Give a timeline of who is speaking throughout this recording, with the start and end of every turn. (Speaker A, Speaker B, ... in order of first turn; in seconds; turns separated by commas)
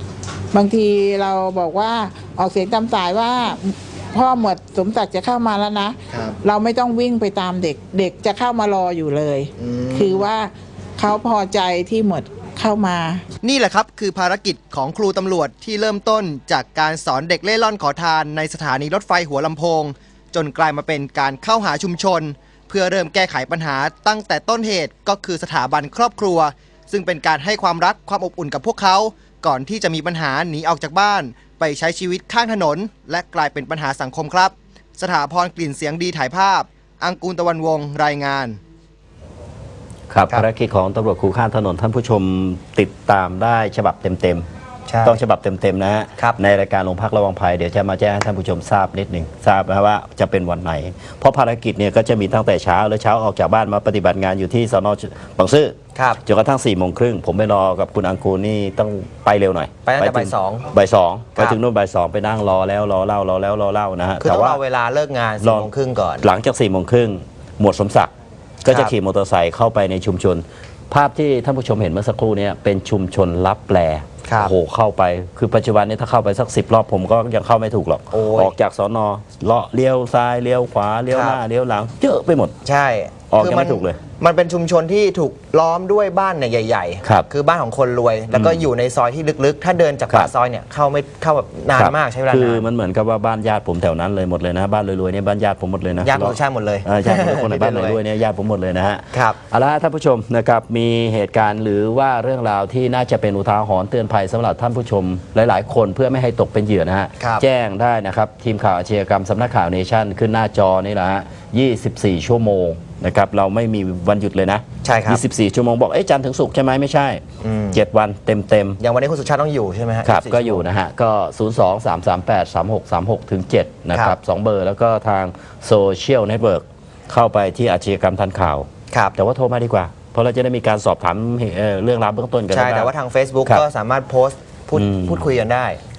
Speaker A: 0.5-13.2, Speaker B: 9.6-10.3, Speaker B: 13.4-38.6, Speaker C: 40.1-44.5, Speaker B: 44.9-45.2, Speaker C: 45.0-64.6, Speaker B: 55.9-56.2, Speaker B: 59.9-60.7, Speaker B: 64.2-66.2, Speaker C: 65.4-65.7, Speaker C: 66.2-68.1, Speaker C: 68.6-82.6, Speaker B: 68.7-68.9, Speaker B: 74.3-74.5, Speaker B: 78.1-78.5, Speaker B: 81.1-81.4, Speaker B: 82.6-92.7, Speaker C: 83.3-84.0, Speaker C: 88.3-88.7, Speaker C: 91.7-117.2, Speaker B: 96.0-98.0, Speaker B: 99.1-99.4, Speaker B: 114.8-115.2, Speaker B: 117.4-117.8, Speaker C: 117.7-118.8, Speaker B: 118.8-120.7, Speaker C: 120.0-132.9, Speaker B: 132.5-135.8, Speaker C: 134.7-135.3